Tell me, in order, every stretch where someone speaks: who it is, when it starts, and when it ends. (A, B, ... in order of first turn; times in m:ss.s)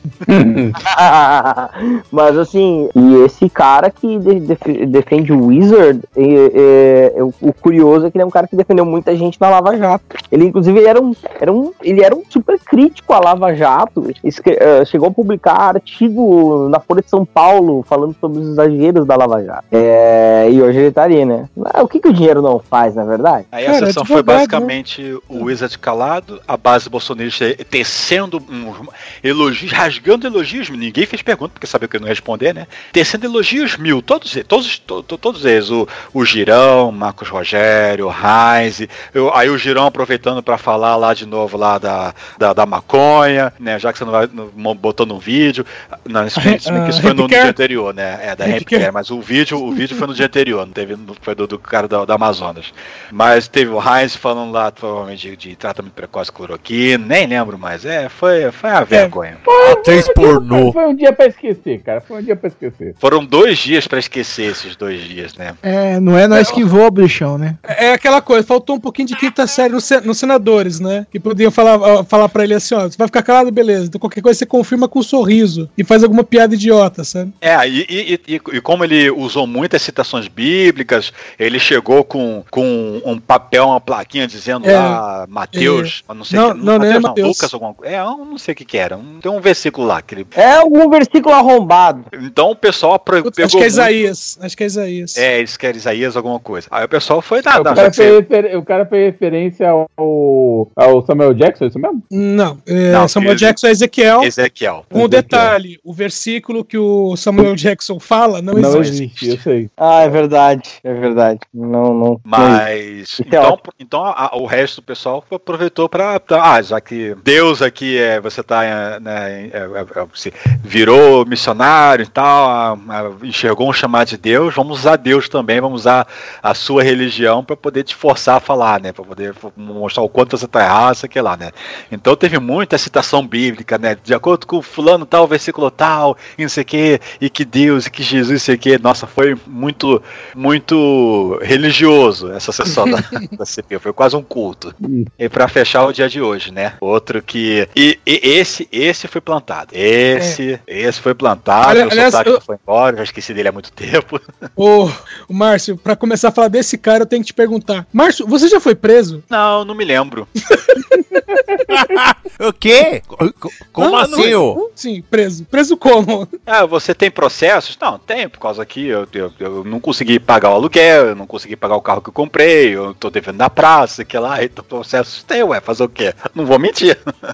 0:00.3-0:00.8 A
0:00.8-0:23.5 B
0:23.5-0:59.4 C
0:23.7-0:24.7 D
0:46.4-0:47.6 D
0:48.4-0:48.9 D
0:59.5-1:03.0 A
0:59.6-1:00.8 E
1:03.0-1:05.6 C
1:05.6-1:07.6 F
1:06.3-1:06.6 D
1:07.6-1:17.3 D
1:17.4-1:30.3 C
1:24.6-1:25.0 D
1:25.5-1:27.5 D
1:30.4-1:32.1 B
1:32.1-1:34.1 C
1:33.2-1:35.2 D
1:35.2-1:38.2 C
1:37.5-1:42.0 A
1:42.1-1:44.3 D
1:42.9-1:43.6 C
1:44.2-1:44.9 C
1:44.9-1:49.1 D
1:44.9-1:45.6 A
1:48.5-1:49.7 A
1:48.7-1:49.4 C
1:49.8-1:52.6 B
1:52.3-2:34.2 C
1:53.2-1:53.6 B
2:24.8-2:25.1 A
2:31.6-2:32.4 D
2:34.6-2:39.2 D
2:39.3-2:40.3 C
2:40.8-2:41.4 D
2:41.7-2:44.6 E
2:43.8-2:46.3 D
2:44.1-2:44.4 C
2:46.5-2:57.0 C